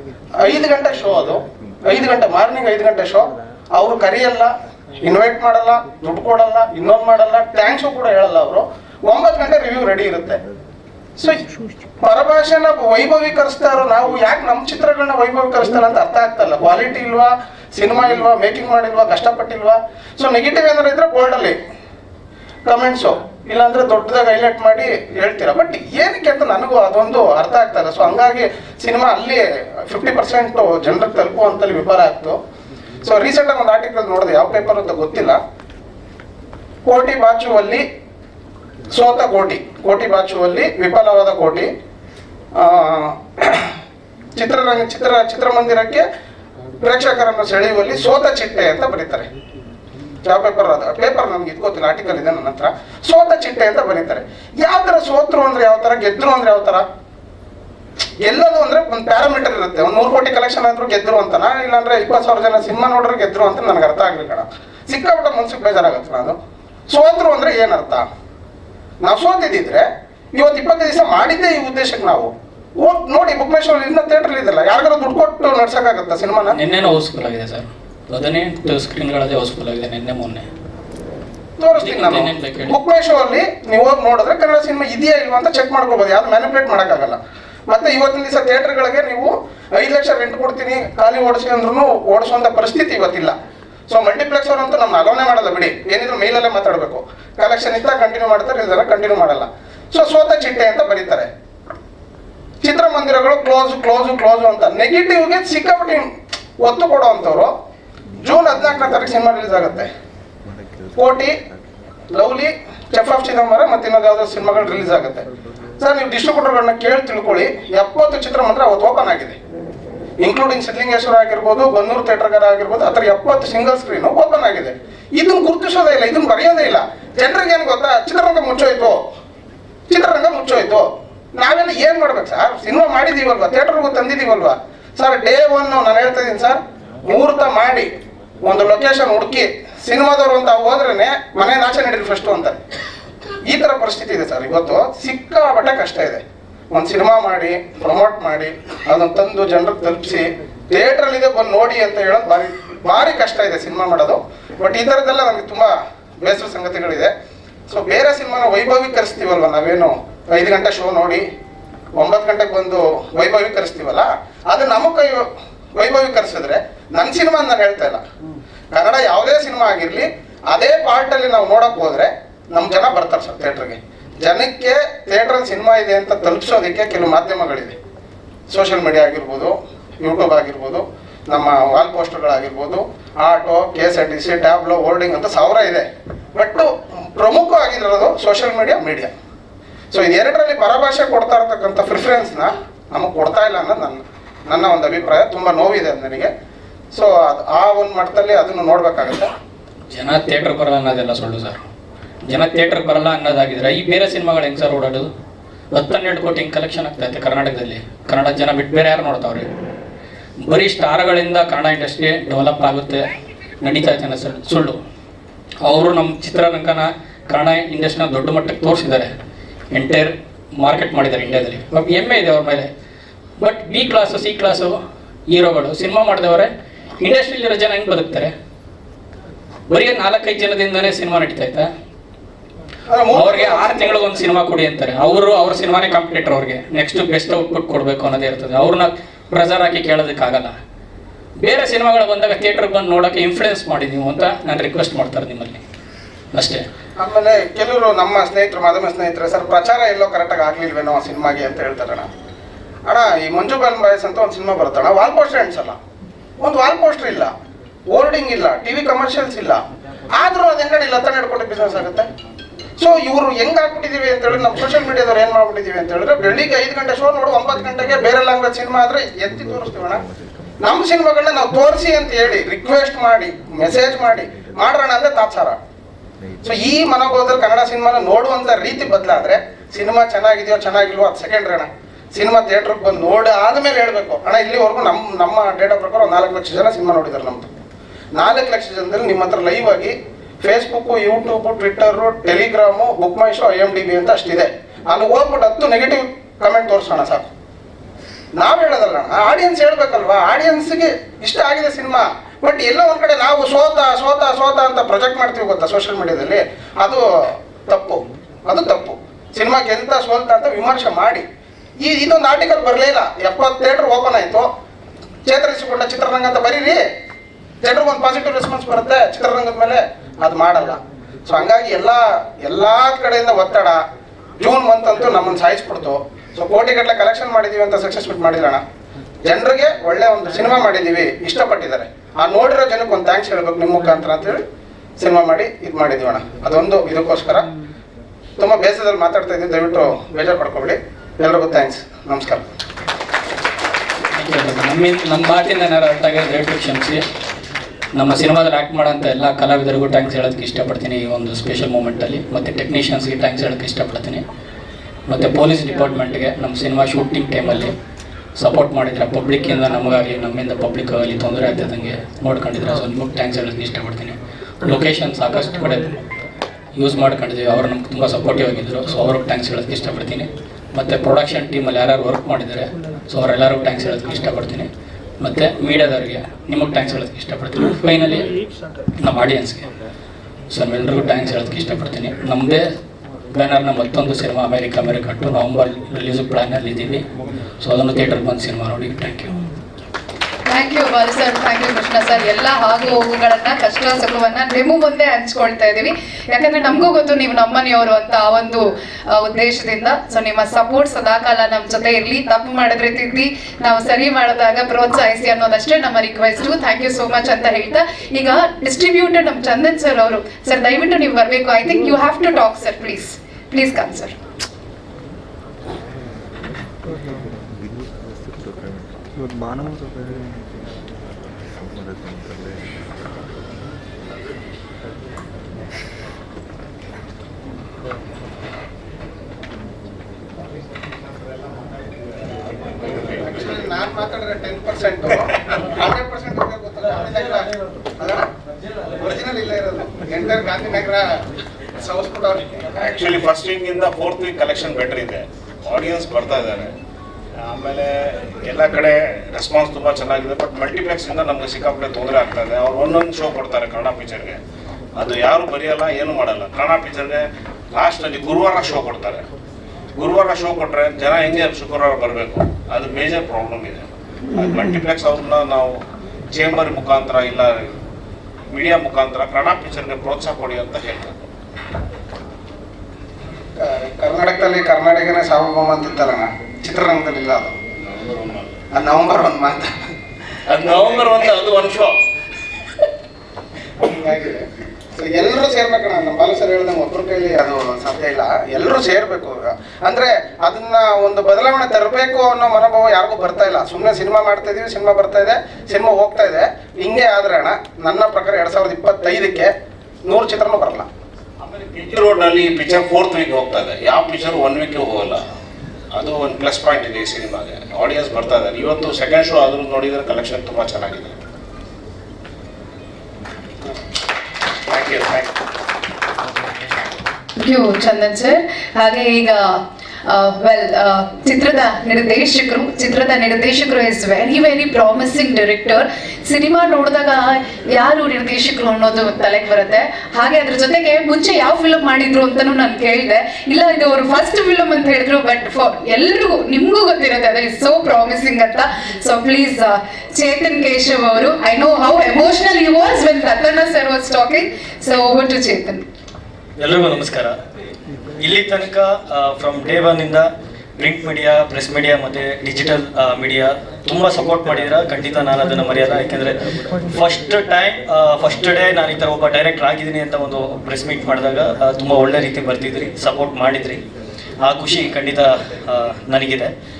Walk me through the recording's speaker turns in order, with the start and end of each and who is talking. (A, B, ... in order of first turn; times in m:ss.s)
0:00.4-0:10.4 A
0:11.2-0:11.5 A
0:12.0-0:21.6 A
0:22.6-0:32.4 A
0:33.0-0:35.4 A
0:36.8-0:37.8 A
0:38.9-0:41.7 A
0:42.5-0:43.7 A
0:44.3-0:46.0 A
0:46.8-0:49.3 A
0:50.2-0:56.8 A
0:58.2-1:06.4 A
1:06.9-1:08.1 A
1:09.0-1:16.6 A
1:16.5-1:20.4 B
1:21.6-1:33.4 A
1:21.8-1:22.7 B
1:33.9-1:41.3 A
1:42.6-1:47.5 A
1:48.2-1:49.9 A
1:51.0-1:51.3 A
1:52.1-1:55.2 A
1:55.8-1:59.4 A
2:00.2-2:09.0 A
2:09.9-2:17.9 A
2:18.4-2:22.6 A
2:23.4-2:37.1 A
2:37.7-2:41.2 A
2:41.9-2:48.0 A
2:48.7-2:57.8 A
2:58.5-3:09.1 A
3:09.9-3:16.3 A
3:16.9-3:19.3 A
3:19.9-3:21.6 B
3:22.2-3:25.1 B
3:25.7-3:29.5 B
3:30.4-3:33.1 B
3:33.6-3:34.8 B
3:35.6-3:39.1 B
3:39.7-3:42.7 B
3:43.4-3:44.8 B
3:45.3-3:48.3 B
3:49.7-3:51.7 B
3:52.9-3:54.2 A
3:53.1-4:00.5 B
4:01.4-4:05.6 B
4:06.3-4:06.6 B
4:07.0-4:12.1 A
4:12.9-4:15.8 A
4:16.4-4:17.3 A
4:17.9-4:22.1 A
4:22.8-4:30.0 A
4:30.6-4:35.6 A
4:36.4-4:47.5 A
4:48.2-4:57.3 A
4:58.3-5:11.2 A
5:11.8-5:14.5 A
5:15.2-5:16.8 A
5:17.6-5:23.8 A
5:24.4-5:28.6 A
5:29.2-5:34.4 A
5:35.0-5:37.5 A
5:38.4-5:42.4 A
5:44.1-5:47.0 B
5:47.9-5:54.2 B
5:55.1-5:57.7 B
5:58.4-6:06.0 B
6:06.8-6:14.7 B
6:15.2-6:18.3 B
6:19.0-6:19.6 B
6:20.5-6:22.7 B
6:23.3-6:27.0 B
6:27.6-6:29.3 B
6:30.5-6:54.2 C
7:12.8-7:13.2 D
7:13.2-7:18.3 A
7:18.9-7:21.2 A
7:21.8-7:22.8 A
7:22.8-7:26.7 D
7:27.4-7:34.4 D
7:34.9-7:39.2 D
7:40.0-7:45.8 D
7:46.3-7:47.7 D
7:48.5-7:51.2 D
7:53.6-7:57.6 A
7:57.8-7:58.6 D
7:58.7-7:59.7 A
8:00.5-8:01.9 D
8:00.5-8:01.2 A
8:03.8-8:19.5 A
8:20.1-8:20.9 A
8:21.4-8:25.2 D
8:25.9-8:31.2 D
8:34.7-8:35.4 D
8:37.4-9:05.8 C
9:06.6-9:07.3 E
9:08.2-9:16.4 E
9:16.9-9:23.8 E
9:24.4-9:26.5 E